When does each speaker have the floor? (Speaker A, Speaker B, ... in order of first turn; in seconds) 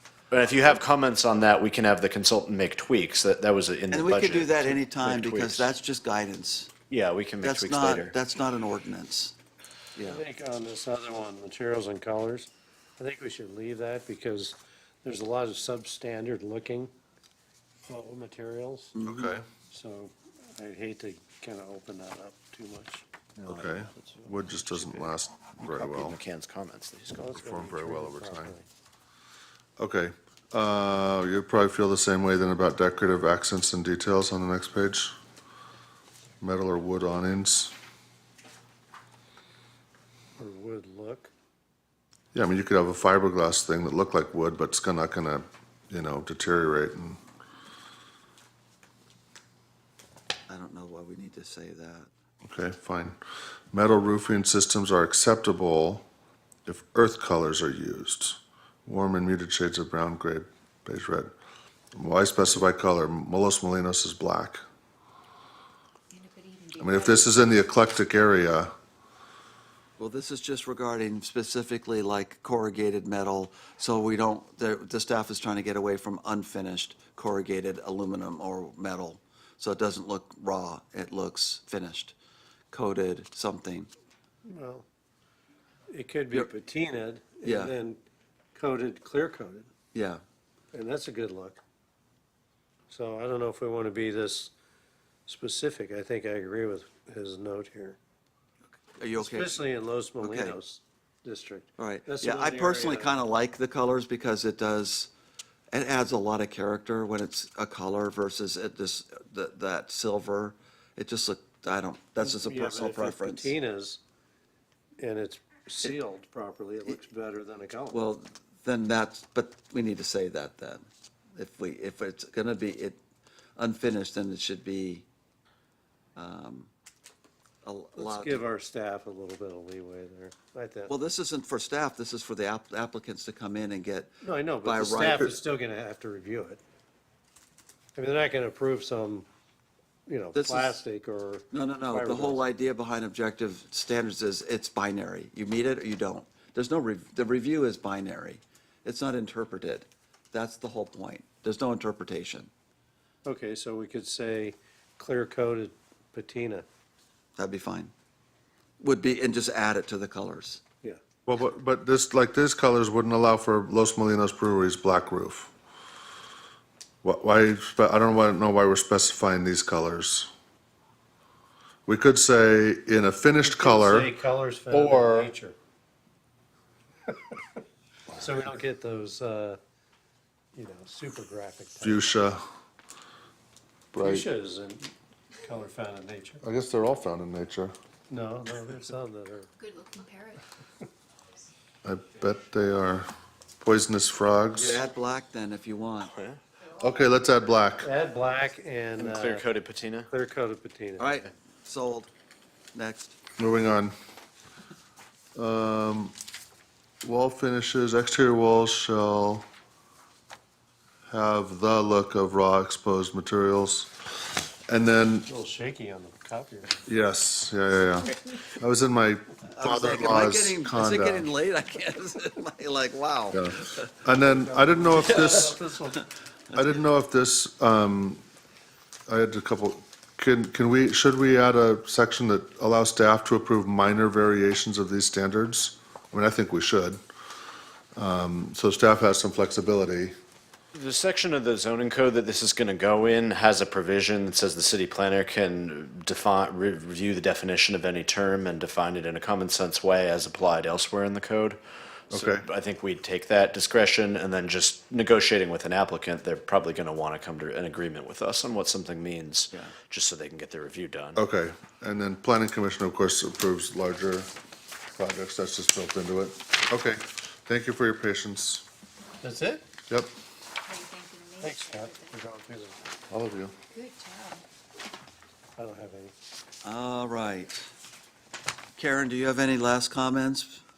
Speaker A: 0.3-5.7, 6.9-8.2, 25.6-27.4, 196.1-196.4, 199.0-200.1, 240.7-251.6, 252.1-261.2
Speaker B: 3.9-6.7, 7.4-9.3, 9.9-10.2, 18.9-19.4, 50.5-52.1, 70.0-82.1, 82.7-83.9, 87.4-87.7, 89.9-90.2, 99.0-99.6, 100.2-100.6, 101.8-105.1, 105.7-113.5, 117.9-123.0, 123.6-125.0, 126.2-126.7, 127.6-128.4, 130.9-134.1, 134.6-135.3, 140.3-140.8, 141.5-152.5, 157.4-157.9, 158.8-160.6, 194.5-196.1, 201.0-202.1, 202.7-203.2, 219.5-223.9, 276.6-277.6, 278.8-280.6
Speaker C: 10.0-16.9, 17.9-18.9, 19.7-25.1, 27.2-28.6, 40.4-41.3, 84.4-84.8, 85.9-88.0, 88.5-89.7, 90.7-91.6, 92.9-94.5, 95.3-98.0, 99.2-103.1, 112.2-114.0, 115.0-118.0, 128.0-130.9, 134.2-136.6, 137.9-139.3, 140.1-142.4, 153.2-156.7, 173.4-175.6, 177.1-177.4, 178.2-179.6, 180.5-182.1, 184.0-186.4, 188.1-189.5, 197.8-199.5, 200.1-201.2, 215.3-216.8, 224.1-226.1, 269.2-269.6, 271.4-273.0, 275.6-276.1
Speaker D: 19.0-19.4, 23.4-26.2, 27.3-28.5, 29.8-35.1, 36.4-37.7, 42.3-47.2, 52.4-53.2, 53.7-56.1, 56.6-61.3, 61.9-64.6, 66.8-68.7, 161.2-165.5, 167.0-170.3, 171.8-174.1, 174.7-175.3, 181.8-182.4, 183.9-184.3, 186.4-187.7, 191.8-193.1, 193.6-194.8, 196.8-197.9, 203.4-203.9, 205.3-206.1, 207.0-209.4, 211.1-214.0, 214.7-215.3, 216.8-221.3, 223.3-225.6, 226.5-228.2, 229.1-237.0, 237.9-240.1, 252.1-252.4, 261.1-264.3, 264.9-268.6, 273.1-273.5
Speaker E: 66.1-67.7, 189.6-190.4, 270.6-272.3, 273.7-274.4